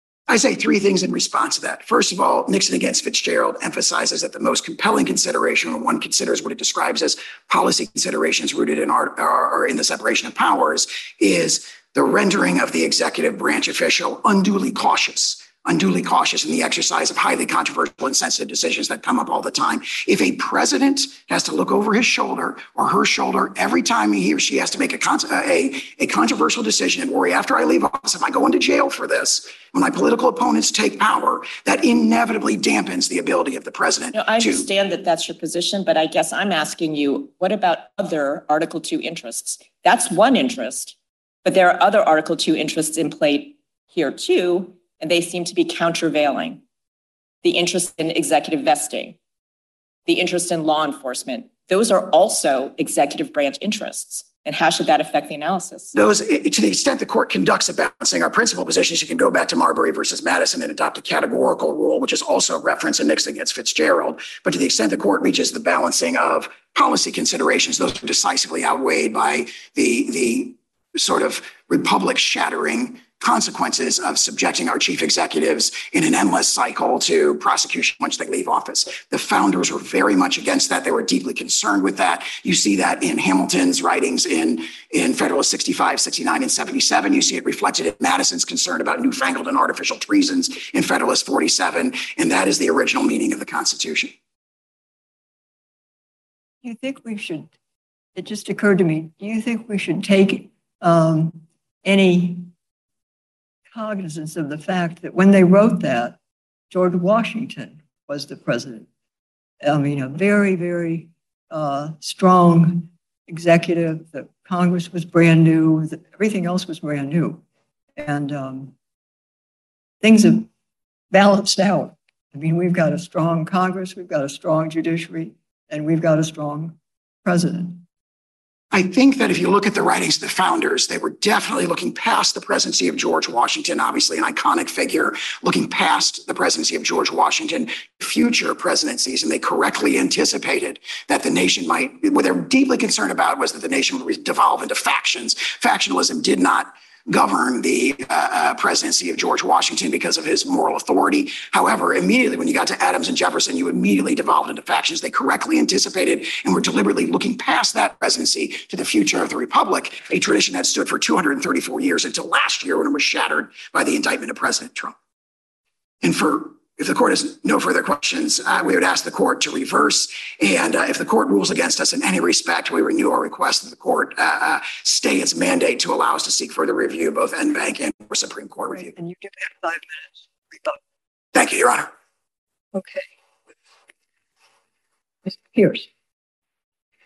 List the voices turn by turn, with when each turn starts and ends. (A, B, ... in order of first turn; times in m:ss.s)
0:00.3-0:34.7 A
0:34.1-0:46.6 B
0:47.4-0:49.2 B
0:50.0-0:56.0 B
0:55.9-1:34.1 A
1:36.6-1:37.5 C
1:38.1-1:42.5 C
1:43.7-1:46.2 C
1:46.7-1:48.9 C
1:49.6-1:57.4 C
1:58.0-1:58.7 C
2:00.0-2:00.5 C
2:01.1-2:07.8 C
2:08.7-2:44.9 A
2:46.0-2:58.9 A
2:58.7-3:00.8 C
3:01.3-3:01.9 A
3:02.7-3:03.1 C
3:05.2-3:05.9 C